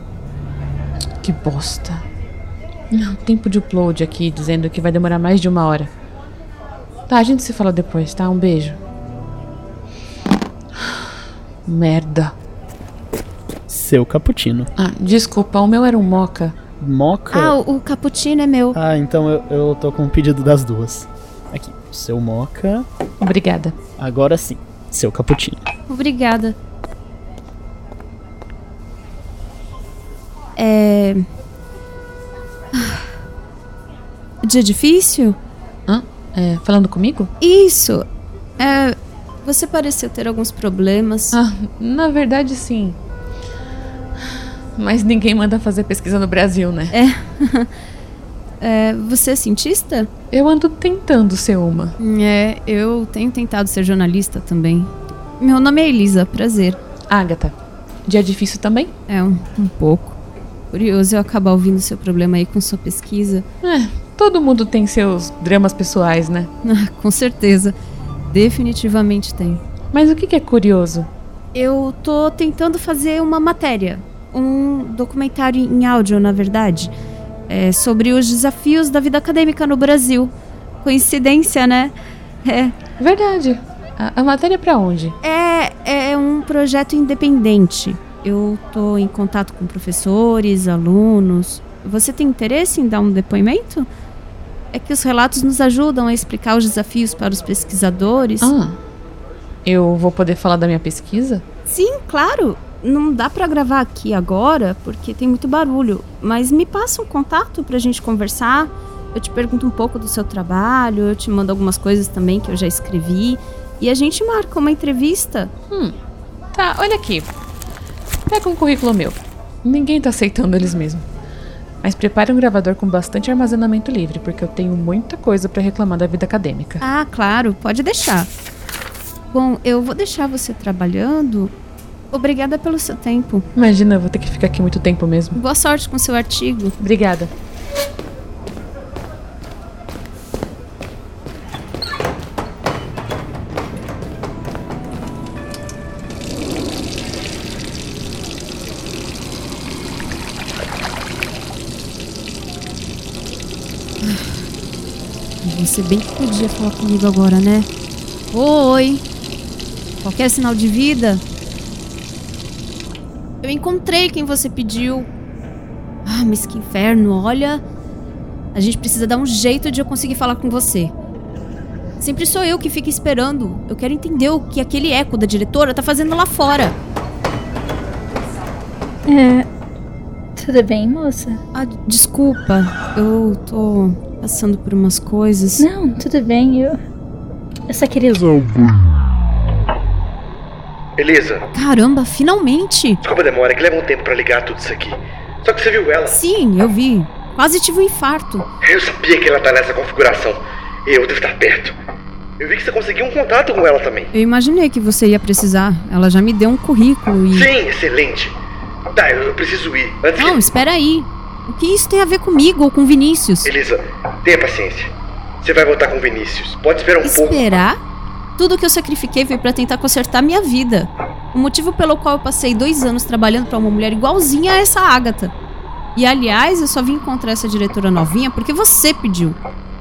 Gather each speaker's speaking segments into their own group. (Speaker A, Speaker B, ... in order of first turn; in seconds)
Speaker A: 1.2-2.0, 2.9-5.9, 7.1-8.8, 11.7-12.3, 14.8-16.6, 23.2-23.8, 35.9-37.3, 41.3-43.0, 44.8-47.0, 50.3-52.0, 57.1-58.9, 63.6-66.5, 69.9-71.1, 83.0-85.2, 98.4-98.8, 99.7-101.4, 116.5-117.3, 118.3-121.1, 121.8-126.8, 133.6-135.4, 136.8-137.3
Speaker B: 13.7-14.7, 16.8-17.6, 18.7-22.9, 24.0-25.6
Speaker C: 17.3-18.8, 25.9-26.6, 30.6-31.2, 32.8-33.0, 34.4-35.4, 37.4-38.0, 38.6-41.4, 46.9-47.7, 48.6-50.1, 52.0-56.8, 59.1-60.2, 60.7-63.5, 66.6-67.7, 68.3-69.6, 71.5-76.9, 77.5-82.8, 85.2-93.9, 94.7-98.5, 101.7-115.5, 126.8-128.3, 129.3-131.5, 132.1-133.5, 135.3-136.8, 154.0-154.4, 155.4-157.7, 158.3-159.0, 160.0-161.2, 163.4-165.1, 166.1-167.6, 168.5-170.9, 172.0-176.8, 181.5-185.7, 191.5-193.0, 196.1-198.5, 204.1-207.5, 210.2-213.5, 217.0-217.8, 218.4-225.3, 225.9-229.4
Speaker D: 179.1-179.5, 180.4-181.4, 185.6-186.8, 187.7-188.7
Speaker E: 191.0-191.5, 193.0-196.2, 198.6-201.8, 202.4-204.1, 207.4-208.4, 209.0-210.4, 213.5-217.4